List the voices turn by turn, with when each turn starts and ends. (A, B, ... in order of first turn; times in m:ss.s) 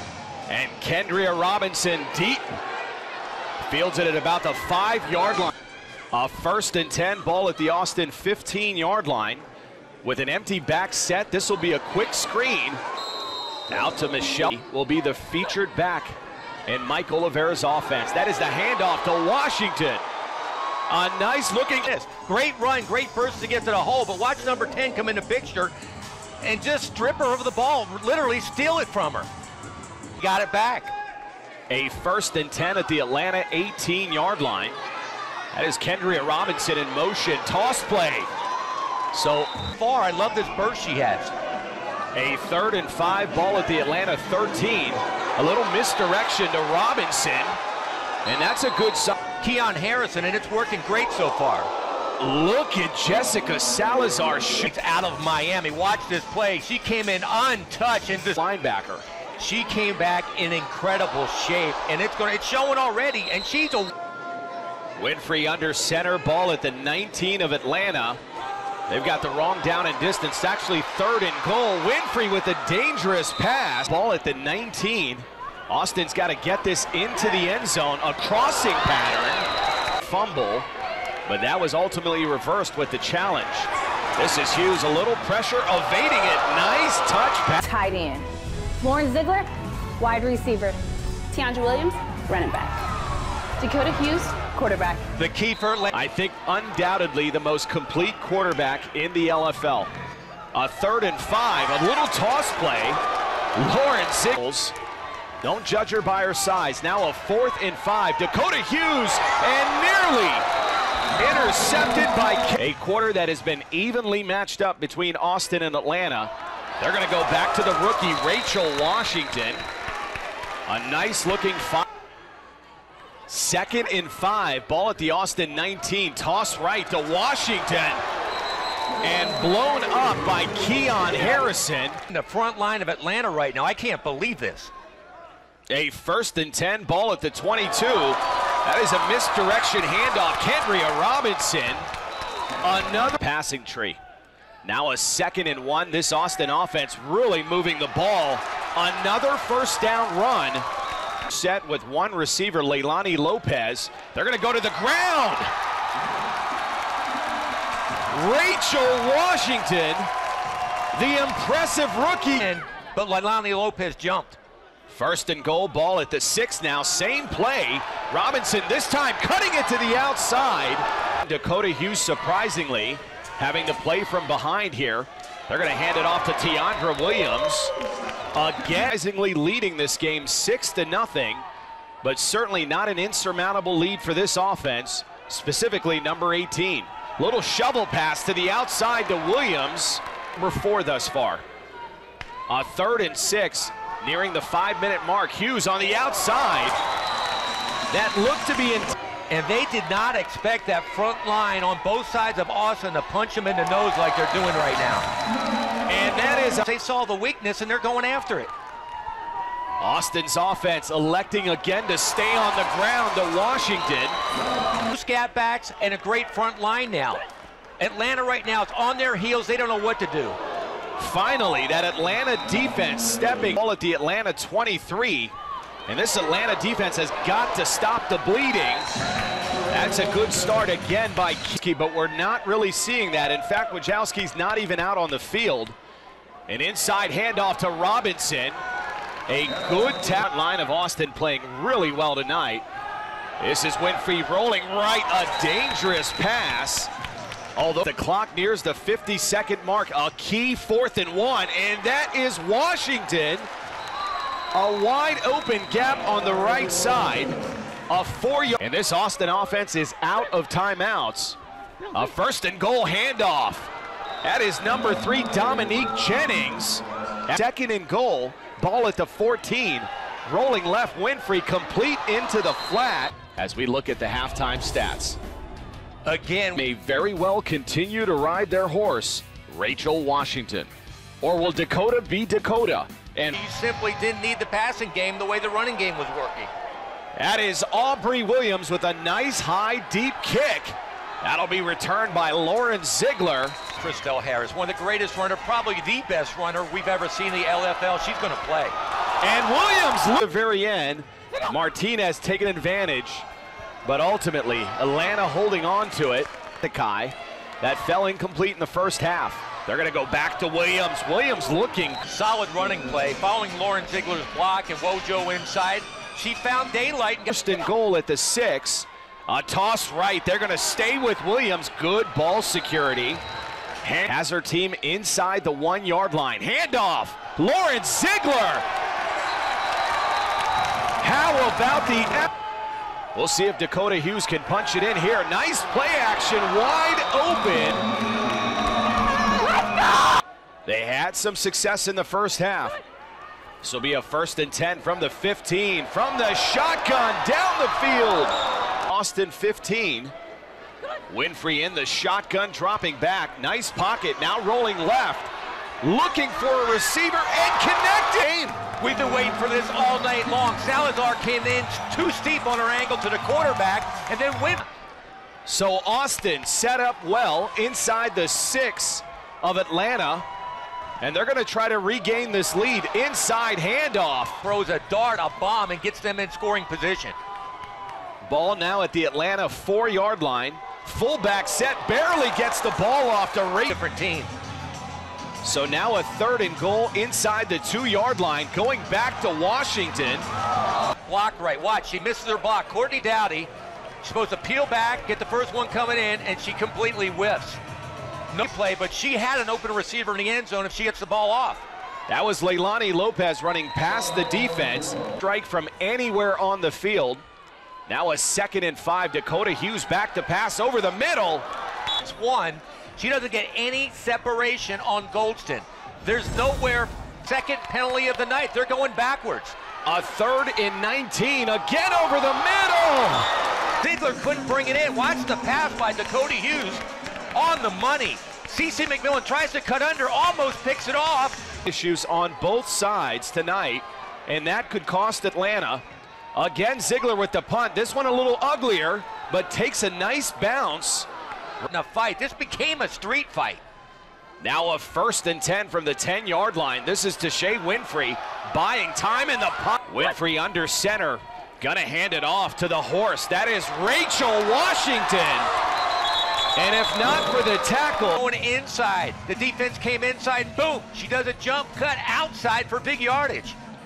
0:00.5-0:02.6 A
0:03.6-0:05.5 A
0:06.1-0:09.4 A
0:10.0-0:12.8 A
0:13.7-0:20.0 A
0:20.9-0:21.9 A
0:21.9-0:25.7 B
0:26.4-0:29.3 B
0:30.2-0:30.9 B
0:31.7-0:34.8 A
0:35.5-0:38.3 A
0:39.1-0:39.5 A
0:39.7-0:41.3 B
0:42.1-0:47.6 A
0:48.2-0:49.2 A
0:49.4-0:51.7 B
0:52.2-0:54.7 A
0:54.6-0:58.4 B
0:58.3-0:59.0 A
0:59.4-1:03.9 B
1:05.0-1:08.2 A
1:08.9-1:19.5 A
1:20.0-1:20.7 A
1:21.3-1:27.6 A
1:27.6-1:28.3 C
1:28.8-1:30.8 C
1:31.3-1:32.8 C
1:33.6-1:35.0 C
1:35.2-1:35.9 B
1:35.9-1:39.9 A
1:40.5-1:43.0 A
1:43.6-1:44.7 A
1:45.4-1:50.4 A
1:51.2-1:59.6 A
2:00.7-2:01.8 A
2:03.3-2:08.0 A
2:09.0-2:12.0 A
2:12.1-2:14.7 B
2:15.7-2:21.9 A
2:22.6-2:24.0 A
2:24.6-2:30.6 A
2:31.3-2:35.5 A
2:38.1-2:40.1 A
2:40.9-2:42.5 A
2:42.4-2:44.4 B
2:44.9-2:57.7 A
2:58.3-3:01.4 A
3:02.0-3:11.4 A
3:12.5-3:16.8 A
3:17.9-3:19.0 A
3:19.3-3:25.1 B
3:25.9-3:26.6 A
3:26.6-3:28.5 B
3:29.8-3:34.2 A
3:34.9-3:37.2 B
3:37.8-3:40.4 B
3:41.0-3:45.3 A
3:45.9-3:48.9 A
3:49.7-3:55.8 A
3:56.5-3:58.6 A
3:59.3-4:02.6 A
4:03.4-4:06.9 A
4:07.6-4:13.5 A
4:14.5-4:17.4 A
4:17.9-4:21.4 A
4:21.9-4:23.7 A
4:24.2-4:35.2 A
4:36.0-4:36.6 B
4:36.6-4:40.7 A
4:41.2-4:43.4 A
4:43.4-4:46.5 B
4:47.2-4:53.6 A
4:53.8-4:58.8 B
4:59.2-5:03.2 A
5:03.8-5:12.0 A
5:12.0-5:17.3 B
5:17.3-5:23.2 A
5:23.8-5:28.6 A
5:31.0-5:32.3 A
5:33.1-5:37.8 A
5:40.6-5:42.8 A
5:43.6-5:48.3 A
5:48.9-5:50.1 A
5:51.1-5:55.3 A
5:55.8-5:58.6 A
5:58.8-6:04.7 B
6:05.4-6:10.2 A
6:11.0-6:14.4 A
6:14.4-6:17.2 B
6:18.2-6:23.7 A
6:23.7-6:24.3 B
6:25.4-6:30.2 A
6:31.0-6:33.5 B
6:34.0-6:37.6 B
6:38.3-6:41.6 B
6:42.1-6:47.2 A
6:47.9-6:51.5 A
6:52.0-6:59.6 B
6:59.8-7:03.3 A
7:03.8-7:06.8 B
7:07.3-7:11.4 B
7:11.6-7:15.8 A
7:16.3-7:21.1 A
7:21.6-7:23.6 B
7:24.4-7:35.5 A
7:36.6-7:38.2 A
7:38.2-7:43.6 B